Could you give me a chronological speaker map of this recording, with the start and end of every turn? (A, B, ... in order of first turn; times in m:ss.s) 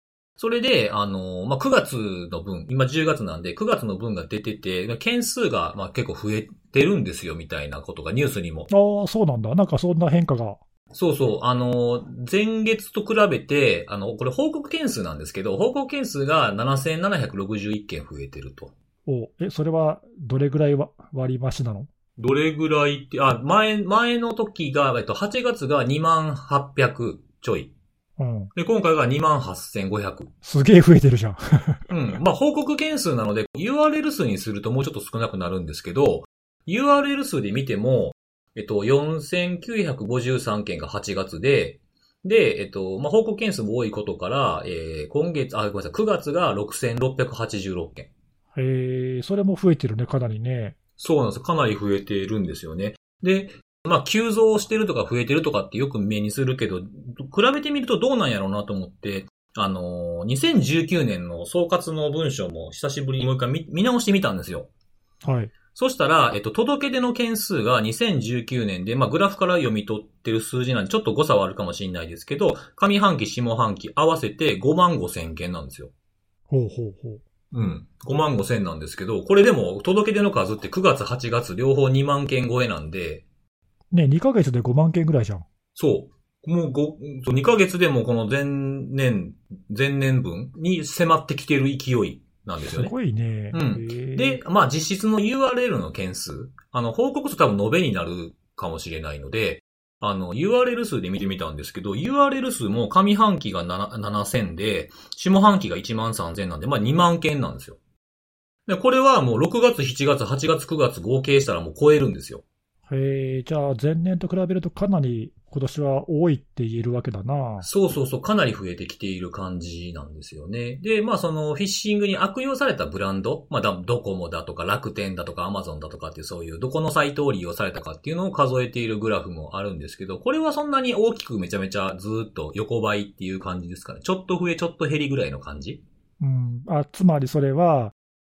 0:00.4-0:08.7 A
0:08.7-0:10.6 B
0:10.9-0:18.7 A
0:19.0-0:21.9 B
0:22.2-0:27.7 A
0:28.2-0:28.5 B
0:28.5-0:30.3 A
0:30.4-0:31.9 B
0:31.9-0:48.1 A
0:48.6-0:50.8 B
0:51.0-1:04.7 A
1:05.2-1:05.5 B
1:05.7-1:15.9 A
1:16.5-1:17.2 B
1:17.5-1:23.2 A
1:23.9-1:25.4 B
1:25.8-1:32.9 A
1:32.6-1:34.4 B
1:33.5-1:47.8 A
1:48.7-1:52.4 A
1:52.9-1:57.7 B
1:57.6-2:15.8 A
2:16.2-2:17.9 B